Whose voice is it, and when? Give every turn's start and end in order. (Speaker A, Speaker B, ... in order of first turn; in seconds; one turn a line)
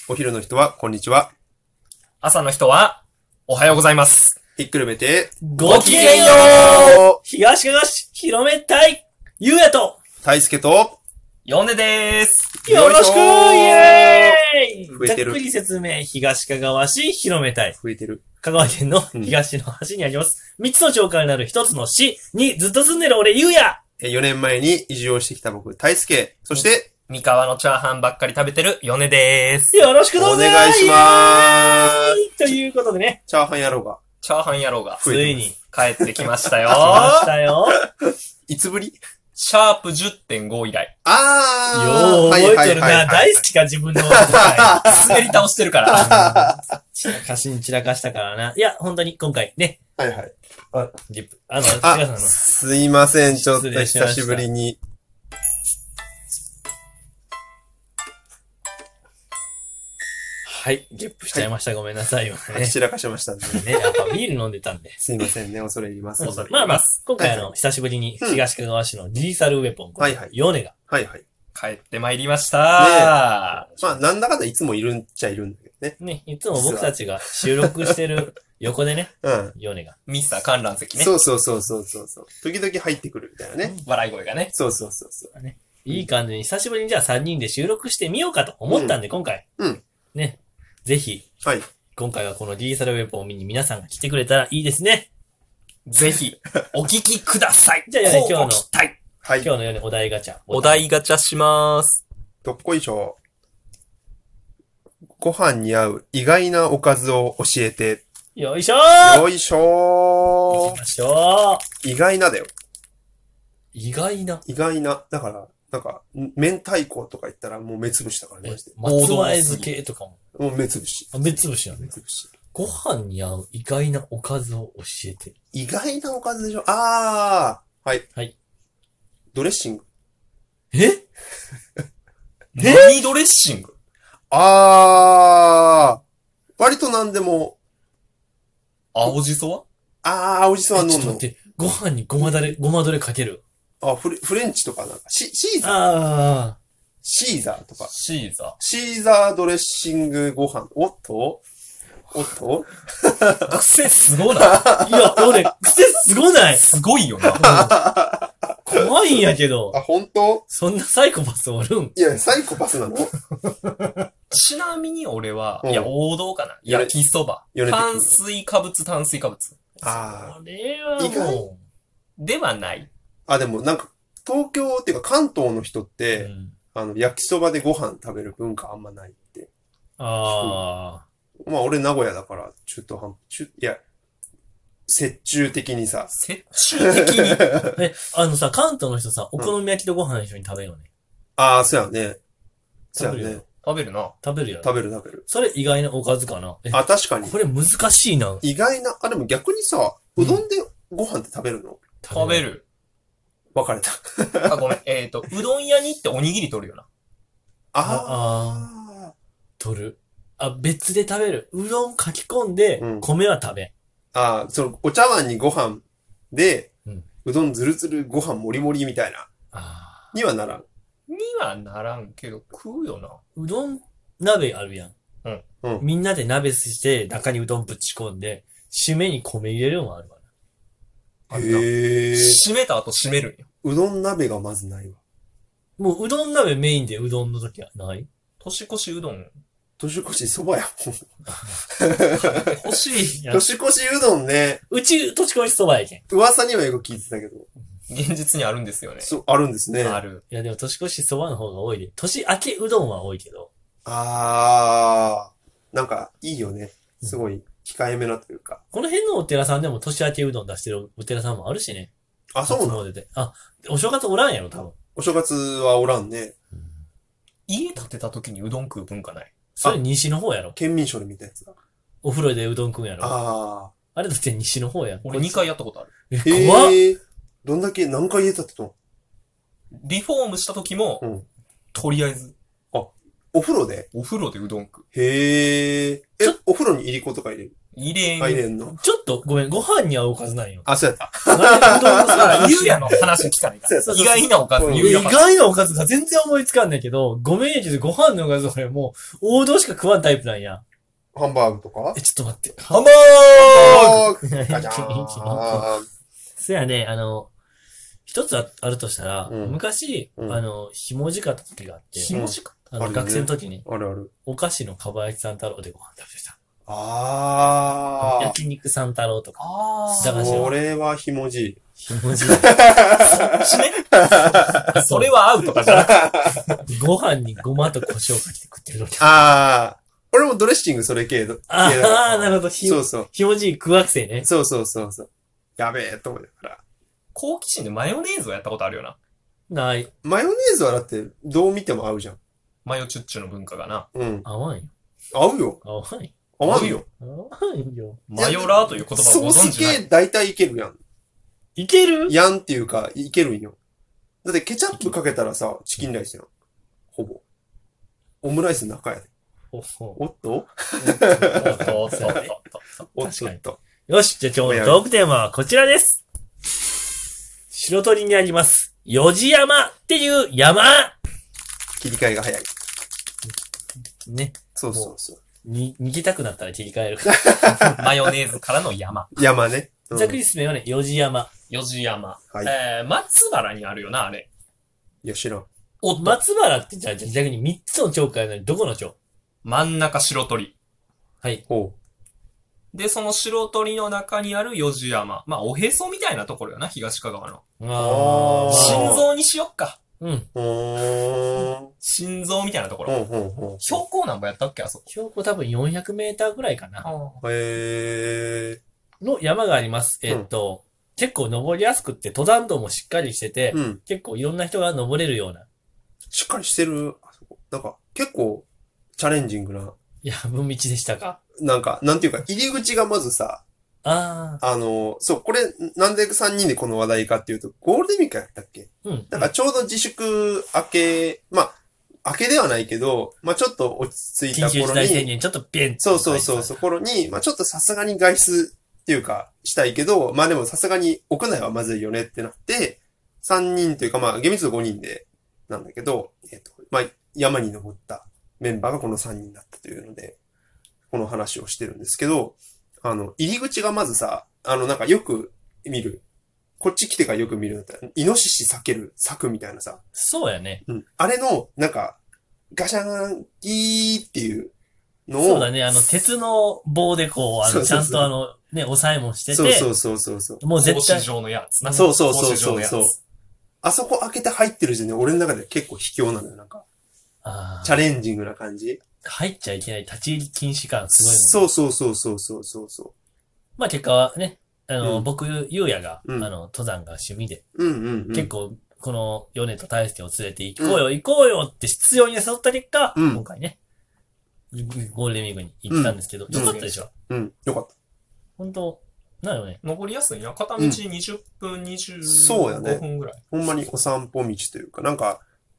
Speaker A: 0.1-1.3
Speaker B: 2.2-4.4
Speaker A: 4.6-7.2
Speaker C: 5.4-10.0
Speaker B: 5.6-7.0
Speaker A: 10.2-11.0
Speaker B: 11.4-12.5
Speaker A: 12.6-14.4
Speaker C: 12.6-17.8
Speaker A: 14.9-15.4
Speaker A: 17.8-18.2
Speaker C: 18.4-23.8
Speaker A: 24.0-26.9
Speaker B: 27.1-29.9
Speaker C: 29.7-33.2
Speaker A: 30.1-32.2
Speaker A: 33.3-34.0
Speaker B: 34.2-35.0
Speaker A: 35.0-35.4
Speaker C: 35.0-35.6
Speaker B: 35.7-37.3
Speaker C: 36.7-37.8
Speaker A: 38.0-39.0
Speaker B: 39.4-40.9
Speaker A: 41.0-45.3
Speaker C: 41.7-45.2
Speaker B: 44.8-46.1
Speaker A: 45.9-46.7
Speaker C: 45.9-49.8
Speaker A: 50.0-50.3
Speaker C: 50.7-52.4
Speaker A: 51.8-54.8
Speaker C: 53.3-54.5
Speaker C: 60.5-62.8
Speaker A: 62.5-64.0
Speaker C: 63.5-65.0
Speaker A: 65.0-66.5
Speaker B: 66.2-67.0
Speaker C: 66.2-70.7
Speaker A: 67.2-67.5
Speaker A: 70.0-71.2
Speaker B: 71.5-74.0
Speaker A: 72.7-73.2
Speaker A: 73.7-76.0
Speaker C: 76.0-80.0
Speaker A: 76.5-78.2
Speaker A: 79.2-79.5
Speaker B: 80.1-81.1
Speaker A: 80.9-83.8
Speaker B: 83.8-84.5
Speaker A: 84.5-85.3
Speaker C: 85.3-89.4
Speaker A: 88.7-89.0
Speaker C: 90.1-91.3
Speaker C: 91.9-95.1
Speaker B: 95.9-99.0
Speaker C: 97.9-98.7
Speaker A: 99.2-99.5
Speaker C: 99.4-100.9
Speaker B: 100.5-102.0
Speaker A: 102.4-103.2
Speaker A: 105.2-108.0
Speaker C: 108.3-109.3
Speaker A: 109.0-110.8
Speaker C: 110.5-111.6
Speaker A: 111.8-112.5
Speaker C: 113.7-114.4
Speaker A: 114.5-118.8
Speaker C: 118.4-120.2
Speaker B: 118.8-119.7
Speaker A: 120.3-122.3
Speaker C: 121.1-121.9
Speaker C: 122.5-125.3
Speaker A: 125.5-128.1
Speaker A: 129.3-129.8
Speaker C: 130.7-131.1
Speaker B: 132.6-133.8
Speaker C: 132.6-133.0
Speaker A: 134.3-136.0
Speaker A: 136.6-137.6
Speaker B: 138.9-139.7
Speaker A: 140.0-141.2
Speaker C: 140.7-143.4
Speaker A: 142.2-142.5
Speaker A: 143.8-145.8
Speaker C: 145.6-146.6
Speaker A: 147.0-147.9
Speaker B: 147.8-148.6
Speaker A: 148.6-151.4
Speaker A: 152.1-153.6
Speaker B: 153.5-154.6
Speaker A: 154.4-155.5
Speaker C: 154.7-156.6
Speaker B: 156.6-157.4
Speaker A: 157.3-158.8
Speaker C: 157.4-157.7
Speaker C: 158.7-159.8
Speaker A: 159.7-160.4
Speaker C: 160.5-162.0
Speaker A: 162.0-163.1
Speaker B: 164.3-169.6
Speaker A: 165.6-165.9
Speaker A: 166.7-167.0
Speaker A: 167.5-168.2
Speaker A: 169.8-170.4
Speaker C: 169.8-171.6
Speaker A: 171.0-171.5
Speaker B: 172.2-172.9
Speaker A: 173.3-179.5
Speaker C: 176.2-176.6
Speaker C: 180.0-181.0
Speaker A: 180.3-180.6
Speaker A: 181.4-183.8
Speaker A: 184.9-186.1
Speaker B: 186.1-187.5
Speaker A: 186.8-187.8
Speaker C: 187.8-190.9
Speaker A: 191.4-192.2
Speaker A: 192.9-193.4
Speaker C: 193.0-193.4
Speaker B: 193.6-194.2
Speaker C: 194.2-194.7
Speaker A: 194.6-195.2
Speaker C: 195.3-198.4
Speaker A: 196.7-197.4
Speaker A: 198.4-201.8
Speaker C: 200.2-200.4
Speaker C: 202.0-202.5
Speaker B: 202.1-202.6
Speaker A: 203.5-204.7
Speaker B: 204.5-206.9
Speaker A: 207.7-209.1
Speaker C: 207.8-208.7
Speaker C: 209.6-213.7
Speaker A: 212.8-213.1
Speaker A: 214.1-216.7
Speaker A: 217.2-219.3
Speaker C: 219.5-220.1
Speaker A: 220.1-220.7
Speaker B: 221.1-223.2
Speaker C: 223.4-224.9
Speaker C: 225.8-230.2
Speaker B: 231.3-233.5
Speaker A: 231.3-232.4
Speaker A: 233.6-235.0
Speaker C: 235.8-238.1
Speaker B: 238.4-239.4
Speaker A: 239.8-241.1
Speaker A: 241.7-242.6
Speaker B: 242.2-243.2
Speaker C: 243.1-243.5
Speaker A: 243.3-244.6
Speaker C: 244.7-246.0
Speaker A: 246.1-247.5
Speaker B: 247.9-249.2
Speaker A: 249.0-250.0
Speaker B: 249.8-250.2
Speaker C: 250.3-253.5
Speaker A: 253.8-258.6
Speaker C: 258.7-261.9
Speaker A: 262.3-262.8
Speaker C: 262.4-264.8
Speaker A: 264.9-266.4
Speaker B: 267.5-269.3
Speaker C: 269.6-270.6
Speaker A: 270.6-271.6
Speaker C: 272.0-273.2
Speaker A: 273.0-273.7
Speaker C: 273.9-275.5
Speaker B: 275.0-275.9
Speaker C: 276.1-276.8
Speaker A: 276.2-278.8
Speaker B: 279.8-281.0
Speaker A: 281.0-281.3
Speaker B: 281.7-282.3
Speaker A: 282.7-283.9
Speaker B: 283.9-284.8
Speaker A: 284.9-287.5
Speaker B: 287.7-288.4
Speaker A: 288.2-288.8
Speaker C: 288.7-290.7
Speaker A: 290.7-293.1
Speaker C: 291.3-293.1
Speaker B: 292.1-295.5
Speaker A: 293.6-295.1
Speaker C: 293.8-300.6
Speaker A: 301.1-302.0
Speaker C: 301.9-302.9
Speaker B: 302.7-304.1
Speaker A: 303.4-305.9
Speaker C: 303.6-305.7
Speaker C: 306.4-307.3
Speaker C: 308.1-312.1
Speaker A: 309.3-309.6
Speaker A: 310.2-310.4
Speaker B: 311.9-312.7
Speaker A: 312.1-314.1
Speaker C: 312.7-313.6
Speaker C: 314.2-316.4
Speaker A: 316.7-318.4
Speaker C: 318.0-319.4
Speaker B: 319.4-320.5
Speaker A: 320.0-321.6
Speaker C: 320.0-320.6
Speaker C: 321.8-323.3
Speaker A: 322.2-325.0
Speaker B: 323.3-323.9
Speaker B: 324.7-326.3
Speaker A: 325.6-326.6
Speaker C: 326.6-329.3
Speaker A: 329.0-333.1
Speaker C: 331.5-334.3
Speaker A: 334.2-336.6
Speaker B: 337.1-338.9
Speaker C: 339.5-339.9
Speaker A: 340.0-342.2
Speaker B: 342.6-343.9
Speaker A: 343.9-344.3
Speaker C: 344.2-344.7
Speaker A: 345.1-345.6
Speaker C: 345.6-346.1
Speaker A: 346.4-346.9
Speaker B: 346.4-346.8
Speaker C: 347.0-348.0
Speaker B: 348.1-349.8
Speaker A: 348.2-350.8
Speaker C: 351.6-352.2
Speaker A: 352.1-353.6
Speaker A: 354.2-356.3
Speaker A: 356.9-357.2
Speaker A: 358.2-359.1
Speaker C: 359.5-360.0
Speaker A: 360.0-362.2
Speaker C: 360.8-362.3
Speaker B: 361.3-362.9
Speaker A: 362.9-363.6
Speaker C: 363.0-366.0
Speaker A: 364.4-364.9
Speaker C: 367.5-370.9
Speaker A: 371.8-372.5
Speaker C: 374.0-377.4
Speaker A: 374.6-375.2
Speaker A: 377.1-378.1
Speaker B: 377.6-379.2
Speaker A: 379.1-380.2
Speaker C: 379.9-381.3
Speaker B: 381.5-384.3
Speaker A: 385.0-385.5
Speaker B: 385.8-386.2
Speaker C: 385.9-388.9
Speaker B: 389.4-390.6
Speaker A: 391.5-391.8
Speaker B: 392.7-397.4
Speaker C: 397.6-399.0
Speaker A: 397.8-399.1
Speaker B: 398.4-399.8
Speaker C: 400.0-400.3
Speaker A: 400.4-401.7
Speaker B: 401.8-402.9
Speaker A: 402.9-403.8
Speaker B: 403.6-404.9
Speaker C: 404.9-406.9
Speaker B: 406.8-407.2
Speaker A: 407.2-408.6
Speaker C: 409.0-415.4
Speaker A: 413.5-413.8
Speaker A: 416.1-418.4
Speaker A: 419.0-419.8
Speaker C: 420.0-421.2
Speaker A: 421.4-423.4
Speaker C: 423.8-424.4
Speaker A: 424.4-435.1
Speaker C: 428.8-429.3
Speaker C: 434.3-436.6
Speaker A: 435.8-450.2
Speaker A: 450.9-456.0
Speaker A: 456.6-459.8
Speaker C: 459.9-460.6
Speaker A: 460.7-462.0
Speaker A: 462.5-464.5
Speaker A: 465.1-465.5
Speaker C: 465.2-469.7
Speaker A: 467.4-468.1
Speaker A: 469.3-470.4
Speaker C: 470.4-471.1
Speaker B: 470.6-473.0
Speaker A: 471.6-472.9
Speaker A: 473.6-476.6
Speaker C: 477.2-477.8
Speaker A: 477.6-478.8
Speaker C: 479.0-481.5
Speaker A: 480.9-482.9
Speaker C: 483.6-487.4
Speaker A: 484.8-485.1
Speaker A: 486.1-486.3
Speaker A: 487.6-488.3
Speaker C: 488.1-493.6
Speaker A: 490.6-490.9
Speaker A: 492.9-493.2
Speaker C: 494.5-496.9
Speaker A: 495.7-497.7
Speaker B: 496.3-496.8
Speaker C: 498.4-499.6
Speaker B: 499.6-503.2
Speaker A: 502.0-505.2